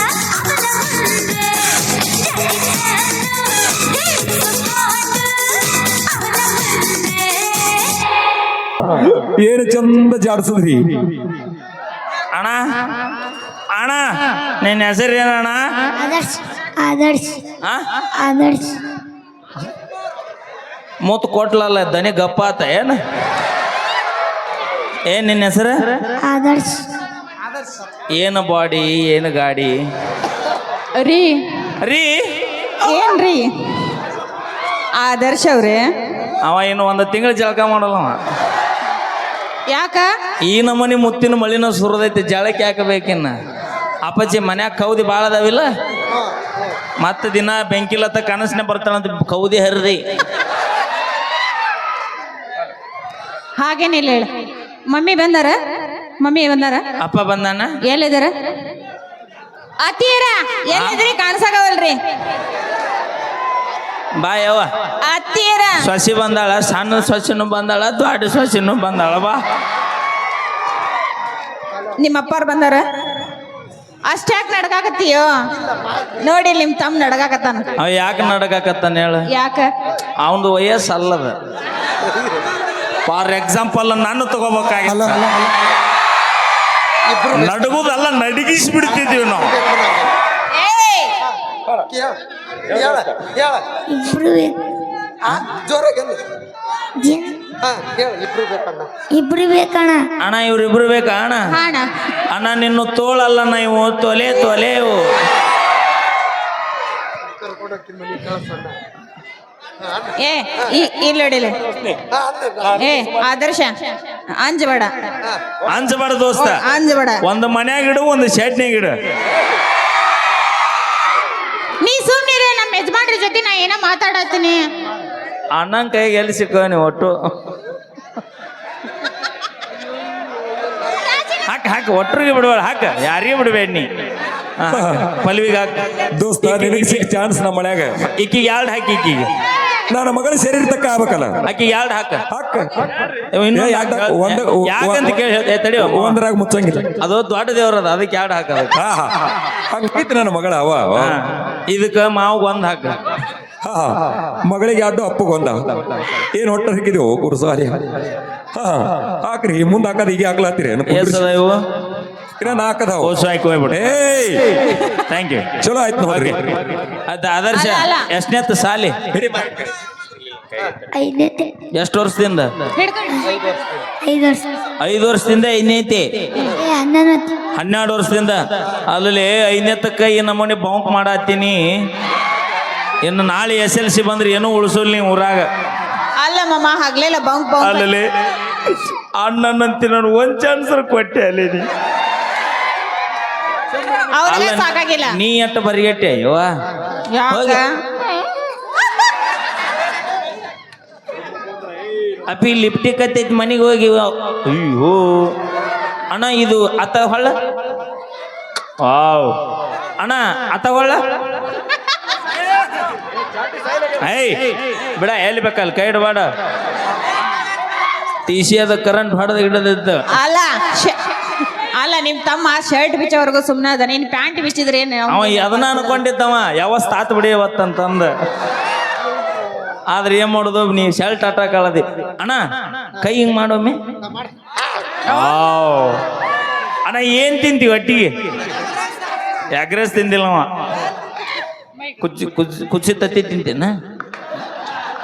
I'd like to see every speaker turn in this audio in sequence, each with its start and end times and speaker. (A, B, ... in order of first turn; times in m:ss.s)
0:00.4-0:01.3 A
0:06.3-0:07.6 A
0:08.8-0:11.2 B
0:12.3-0:12.8 C
0:13.7-0:14.0 C
0:14.6-0:15.6 C
0:16.0-0:17.4 A
0:18.2-0:18.8 A
0:21.0-0:23.0 C
0:25.1-0:26.1 C
0:26.2-0:26.8 A
0:28.1-0:29.8 C
0:31.0-0:31.4 D
0:31.8-0:32.2 C
0:32.8-0:33.5 D
0:35.0-0:35.8 D
0:36.4-0:38.2 C
0:39.7-0:40.1 D
0:40.4-0:43.3 C
0:44.0-0:45.7 C
0:46.1-0:46.8 E
0:47.0-0:50.0 C
0:53.6-0:54.3 D
0:54.9-0:56.9 D
0:57.0-0:57.7 C
0:57.8-0:58.3 D
0:59.8-1:02.0 D
1:00.7-1:01.0 C
1:04.2-1:04.7 C
1:05.0-1:05.9 D
1:05.8-1:09.4 C
1:11.9-1:12.8 D
1:14.1-1:15.5 D
1:16.2-1:17.7 D
1:17.8-1:19.2 C
1:19.3-1:19.7 D
1:20.2-1:21.3 C
1:23.0-1:25.2 C
1:24.8-1:25.5 E
1:27.1-1:27.7 E
1:27.3-1:29.5 C
1:28.8-1:30.1 E
1:30.6-1:31.1 D
1:31.9-1:32.1 E
1:32.7-1:33.6 E
1:33.9-1:34.5 A
1:35.2-1:36.2 E
1:37.0-1:37.3 A
1:37.6-1:38.9 E
1:39.1-1:40.0 A
1:40.2-1:41.5 C
1:41.5-1:41.9 D
1:42.3-1:45.1 C
1:47.4-1:48.8 E
1:49.8-1:50.7 E
1:50.2-1:51.6 D
1:52.1-1:52.9 E
1:52.8-1:53.7 D
1:54.3-1:55.1 D
1:55.7-1:56.6 C
1:56.5-1:57.2 D
1:57.2-1:58.9 C
2:01.8-2:04.6 D
2:05.5-2:07.1 C
2:11.5-2:13.9 C
2:14.6-2:15.7 C
2:14.7-2:15.1 B
2:16.1-2:18.1 B
2:16.4-2:17.0 C
2:18.2-2:19.3 C
2:19.9-2:21.4 B
2:21.4-2:22.2 C
2:22.3-2:22.8 B
2:23.3-2:26.2 C
2:23.5-2:25.1 B
2:25.8-2:26.9 B
2:27.0-2:28.8 C
2:28.7-2:31.2 B
2:31.0-2:33.0 C
2:33.6-2:38.0 B
2:38.5-2:41.2 B
2:40.9-2:41.6 C
2:42.4-2:43.2 B
2:43.0-2:44.0 C
2:43.7-2:44.6 B
2:44.8-2:45.5 C
2:45.6-2:46.5 B
2:46.7-2:48.9 C
2:47.5-2:48.1 D
2:49.1-2:49.6 B
2:50.9-2:51.5 A
2:51.7-2:52.5 C
2:52.8-2:53.4 D
2:54.0-2:54.6 A
2:54.8-2:56.1 C
2:56.6-2:57.4 A
2:57.6-3:01.6 C
3:03.0-3:05.5 C
3:06.2-3:07.8 D
3:07.6-3:08.1 C
3:08.6-3:11.6 C
3:14.2-3:15.2 D
3:14.2-3:16.5 C
3:17.1-3:17.7 D
3:17.3-3:17.6 C
3:22.3-3:25.3 C
3:26.1-3:27.3 C
3:28.8-3:29.3 C
3:30.0-3:31.0 C
3:34.0-3:36.3 C
3:38.3-3:40.0 C
3:40.1-3:41.0 D
3:41.8-3:46.0 D
3:45.1-3:48.1 C
3:49.9-3:53.8 C
3:55.1-3:56.0 C
3:56.8-3:58.1 C
3:59.5-4:00.4 C
4:02.0-4:03.7 C